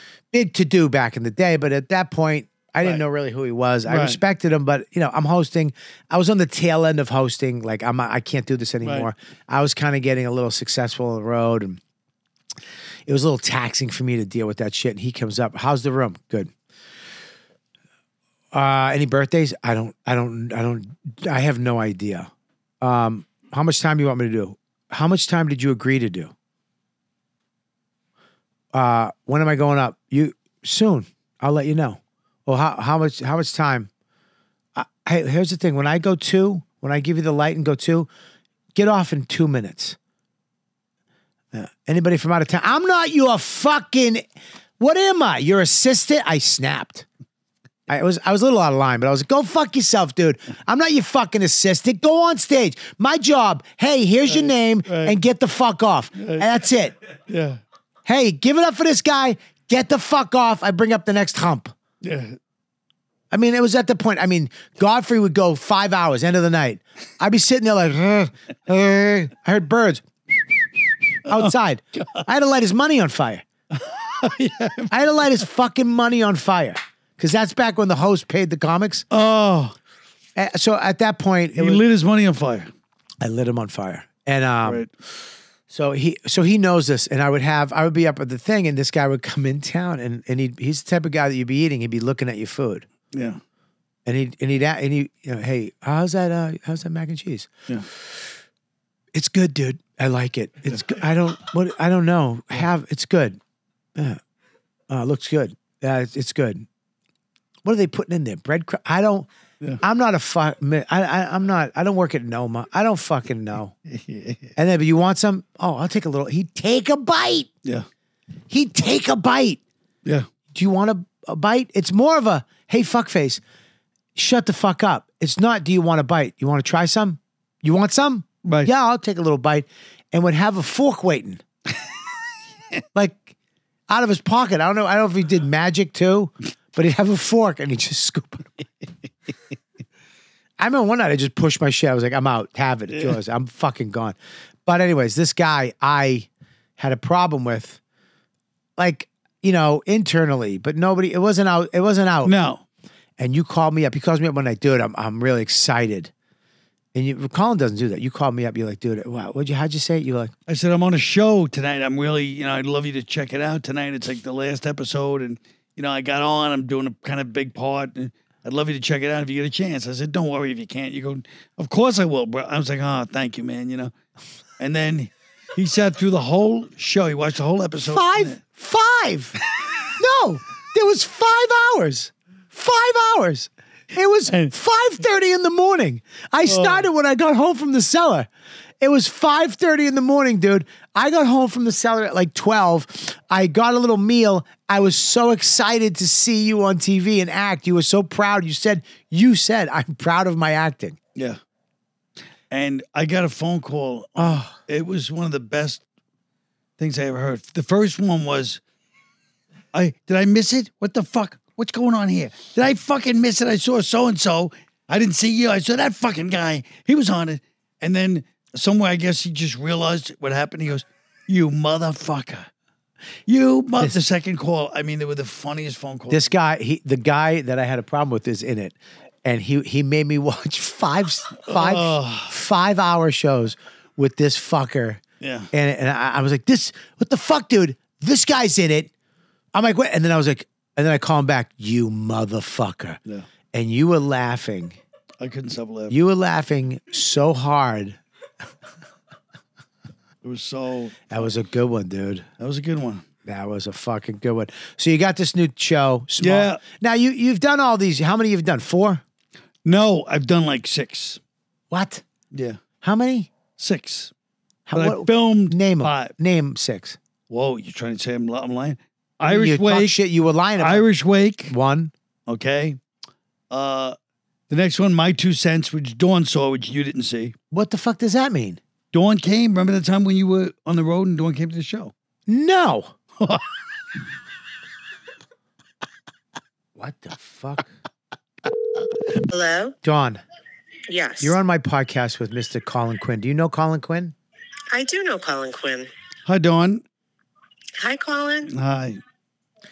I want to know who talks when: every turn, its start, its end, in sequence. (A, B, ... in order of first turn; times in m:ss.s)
0:00.3-0:11.8 A
0:03.9-0:04.2 B
0:08.8-0:09.1 B
0:13.1-0:16.5 A
0:18.5-0:26.3 A
0:28.7-0:33.9 A
0:34.8-0:38.1 A
0:38.7-0:40.0 A
0:41.5-0:44.2 A
0:44.8-0:47.0 A
0:47.9-0:56.9 A
0:54.2-0:55.2 B
0:56.2-0:56.5 B
0:57.3-0:57.6 B
0:58.0-1:01.7 A
1:02.0-1:02.4 B
1:03.3-1:10.0 A
1:11.2-1:13.4 A
1:11.3-1:12.2 B
1:13.7-1:15.0 B
1:14.9-1:19.0 A
1:19.1-1:19.8 B
1:20.4-1:21.8 A
1:21.6-1:22.7 B
1:23.2-1:24.8 A
1:25.7-1:32.9 A
1:33.1-1:33.4 B
1:34.0-1:37.5 A
1:39.1-1:43.4 A
1:44.9-1:46.7 A
1:47.6-1:49.3 A
1:49.8-1:53.7 A
1:53.9-1:54.5 B
1:54.6-1:57.5 A
1:58.5-1:59.6 A
2:00.5-2:03.4 A
2:04.2-2:11.4 A
2:08.4-2:08.7 B
2:12.9-2:13.3 A
2:13.9-2:18.5 A
2:20.6-2:27.8 A
2:22.9-2:23.2 B
2:28.8-2:32.3 A
2:32.2-2:32.6 B
2:33.2-2:36.1 A
2:36.9-2:40.3 A
2:40.5-2:53.9 B
2:54.6-2:58.4 B
2:57.8-2:59.4 A
2:59.9-3:08.3 A
3:04.3-3:04.5 B
3:06.4-3:06.8 B
3:08.8-3:21.0 A
3:22.5-3:25.8 B
3:24.2-3:24.5 A
3:26.8-3:28.6 B
3:29.7-3:42.5 B
3:43.3-3:46.3 B
3:46.1-3:55.0 A
3:51.4-3:52.3 B
3:55.2-3:55.5 B
3:55.5-3:58.9 A
3:59.5-4:03.0 A
4:03.5-4:04.8 A
4:05.2-4:05.9 B
4:05.9-4:08.0 A
4:10.2-4:11.2 B
4:11.1-4:12.3 A
4:12.4-4:13.0 B
4:13.2-4:19.0 A
4:16.2-4:16.6 B
4:19.6-4:21.2 B
4:21.7-4:22.0 A
4:22.3-4:22.6 B
4:22.8-4:23.3 A
4:23.6-4:24.1 B
4:24.7-4:27.0 A
4:24.7-4:26.1 B
4:27.3-4:30.0 B
4:29.2-4:30.8 A
4:30.6-4:31.5 B
4:31.5-4:31.9 A
4:32.3-4:32.8 B
4:33.5-4:34.0 B
4:34.5-4:37.3 B
4:37.5-4:38.6 A
4:38.9-4:41.9 B
4:42.3-4:42.9 A
4:43.2-4:43.5 B
4:46.8-4:47.7 A
4:49.3-4:49.8 C
4:49.8-4:50.2 A
4:50.9-4:51.4 C
4:51.2-4:54.1 A
4:54.7-4:55.9 C
4:56.2-4:56.8 B
4:57.8-4:58.5 C
4:58.5-4:59.0 B